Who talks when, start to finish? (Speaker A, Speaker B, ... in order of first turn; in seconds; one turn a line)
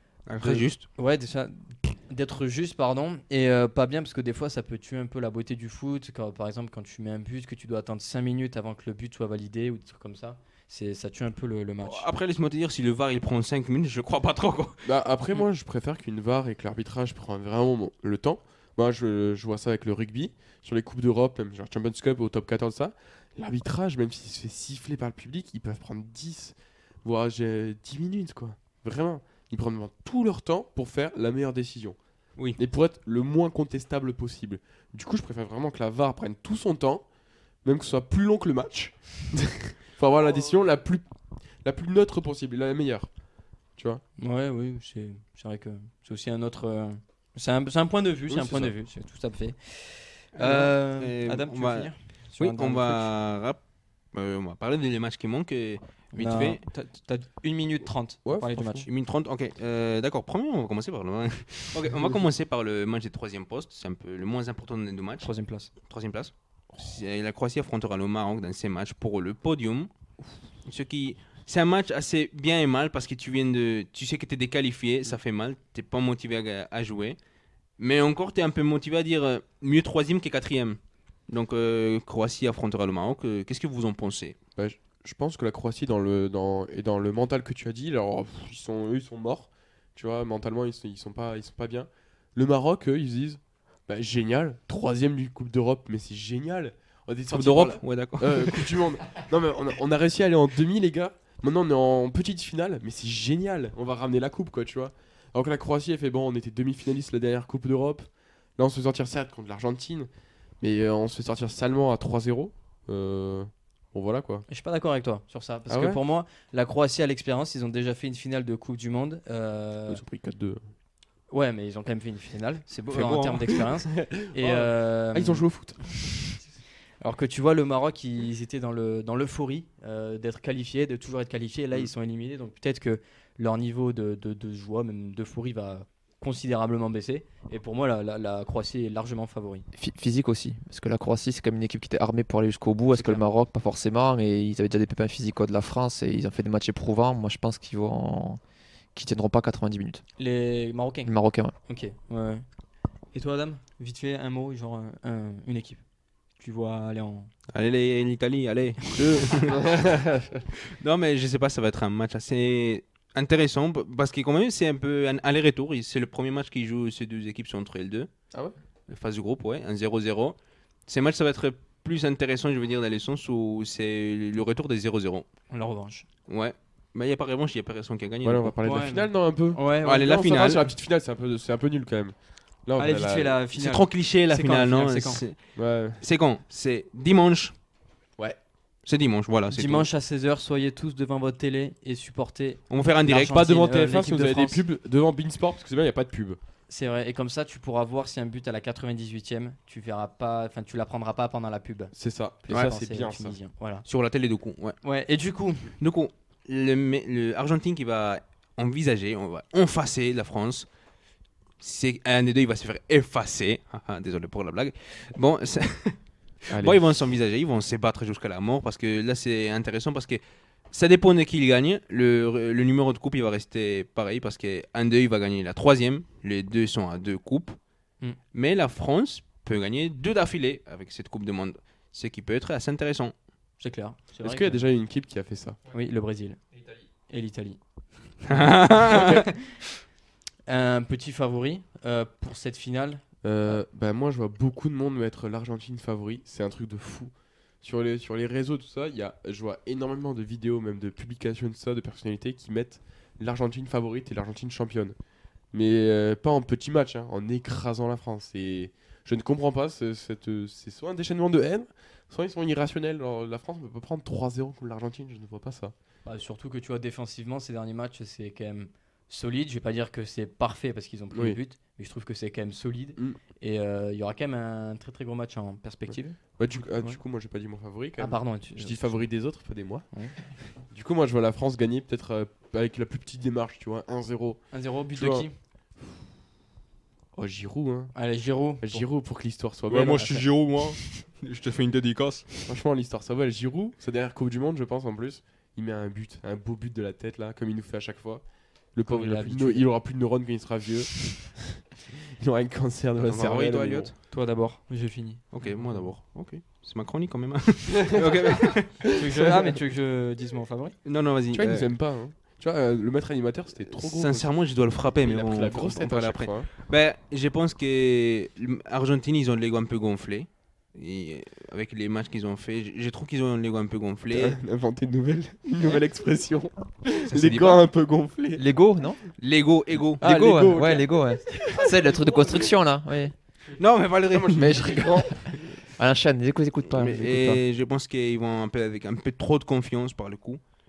Speaker A: 0.2-0.8
Speaker B: 0.4-12.1
Speaker A: 11.8-14.9
Speaker C: 14.8-32.0
Speaker C: 32.5-37.0
Speaker C: 37.6-41.0
Speaker C: 41.6-43.1
Speaker C: 43.8-44.0
Speaker B: 44.2-53.1
Speaker C: 48.3-48.7
Speaker A: 50.4-53.6
Speaker A: 54.1-56.6
Speaker B: 56.1-58.9
Speaker C: 58.2-58.7
Speaker A: 58.8-65.3
Speaker B: 65.2-65.7
Speaker A: 65.8-69.9
Speaker A: 70.6-77.2
Speaker A: 77.8-80.8
Speaker A: 81.3-84.4
Speaker C: 84.6-110.1
Speaker A: 97.3-98.8
Speaker C: 110.6-114.5
Speaker B: 114.5-120.0
Speaker C: 115.7-116.0
Speaker C: 119.9-120.6
Speaker B: 121.3-125.5
Speaker A: 122.9-123.7
Speaker C: 124.0-126.4
Speaker B: 127.0-139.7
Speaker D: 139.7-148.4
Speaker B: 142.9-143.2
Speaker D: 148.9-150.0
Speaker B: 150.2-152.4
Speaker D: 151.1-151.5
Speaker B: 153.1-155.8
Speaker B: 156.4-157.3
Speaker A: 157.5-159.6
Speaker C: 158.9-160.4
Speaker A: 160.7-168.1
Speaker A: 168.9-170.3
Speaker A: 170.9-175.3
Speaker B: 175.5-176.1
Speaker A: 176.3-178.6
Speaker C: 178.2-183.3
Speaker B: 178.6-180.1
Speaker A: 179.8-180.6
Speaker B: 182.8-185.2
Speaker A: 183.5-187.5
Speaker C: 185.6-186.0
Speaker A: 188.8-189.9
Speaker B: 189.5-194.6
Speaker A: 192.7-193.4
Speaker C: 193.2-196.4
Speaker B: 196.7-201.9
Speaker C: 201.9-203.4
Speaker B: 202.4-203.8
Speaker A: 203.8-204.8
Speaker B: 204.8-205.7
Speaker A: 205.8-210.7
Speaker A: 211.6-216.0
Speaker C: 216.5-216.8
Speaker A: 216.5-227.6
Speaker A: 228.3-233.1
Speaker B: 233.6-234.7
Speaker C: 234.2-235.6
Speaker B: 235.7-236.4
Speaker B: 237.1-237.6
Speaker A: 238.3-239.3
Speaker C: 238.8-239.3
Speaker B: 240.5-243.5
Speaker C: 243.2-254.9
Speaker C: 255.5-265.7
Speaker B: 266.0-276.2
Speaker C: 271.1-271.4
Speaker C: 276.4-279.9
Speaker B: 278.0-279.0
Speaker C: 280.6-285.3
Speaker B: 284.5-285.3
Speaker C: 287.1-287.9
Speaker B: 287.9-288.9
Speaker C: 288.6-290.1
Speaker A: 289.7-292.5
Speaker C: 292.4-301.6
Speaker B: 298.8-299.7
Speaker C: 302.2-303.9
Speaker A: 303.0-303.9
Speaker B: 304.1-305.9
Speaker A: 305.3-309.0
Speaker C: 307.9-308.3
Speaker B: 308.9-310.7
Speaker A: 310.8-311.7
Speaker C: 311.3-314.3
Speaker A: 313.7-324.4
Speaker C: 314.8-316.5
Speaker C: 324.1-328.4
Speaker A: 327.0-327.7
Speaker D: 328.4-329.0
Speaker A: 329.2-330.1
Speaker C: 330.0-331.4
Speaker D: 330.0-333.1
Speaker A: 333.6-335.1
Speaker C: 334.1-335.6
Speaker D: 334.4-337.4
Speaker A: 336.7-340.4